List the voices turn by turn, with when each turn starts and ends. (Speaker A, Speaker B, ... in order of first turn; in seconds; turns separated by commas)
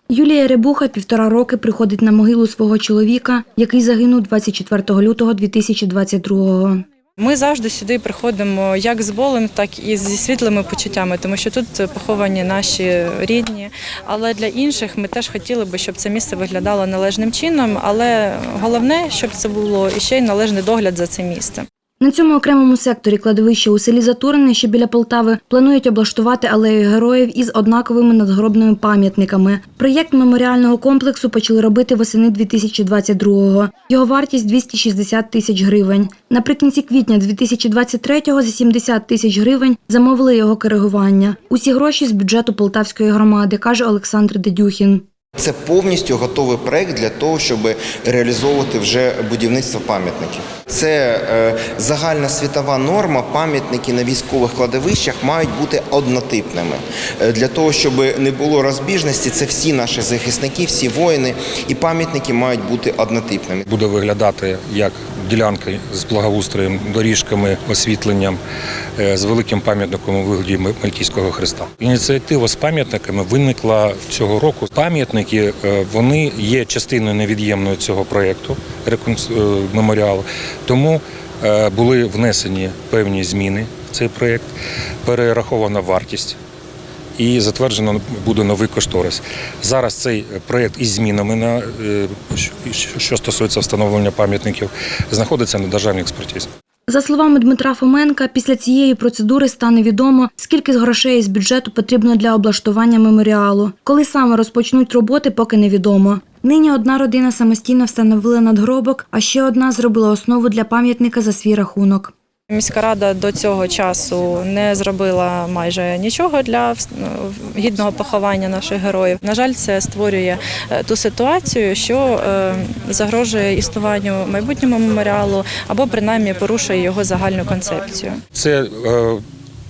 Speaker A: 0.1-6.8, Speaker B: 7.2-21.6, Speaker A: 22.0-45.1, Speaker C: 45.4-63.6, Speaker D: 63.7-68.4, Speaker D: 69.0-84.5, Speaker D: 85.0-86.4, Speaker D: 87.2-96.5, Speaker A: 96.9-112.1, Speaker B: 112.5-128.2, Speaker D: 128.3-129.2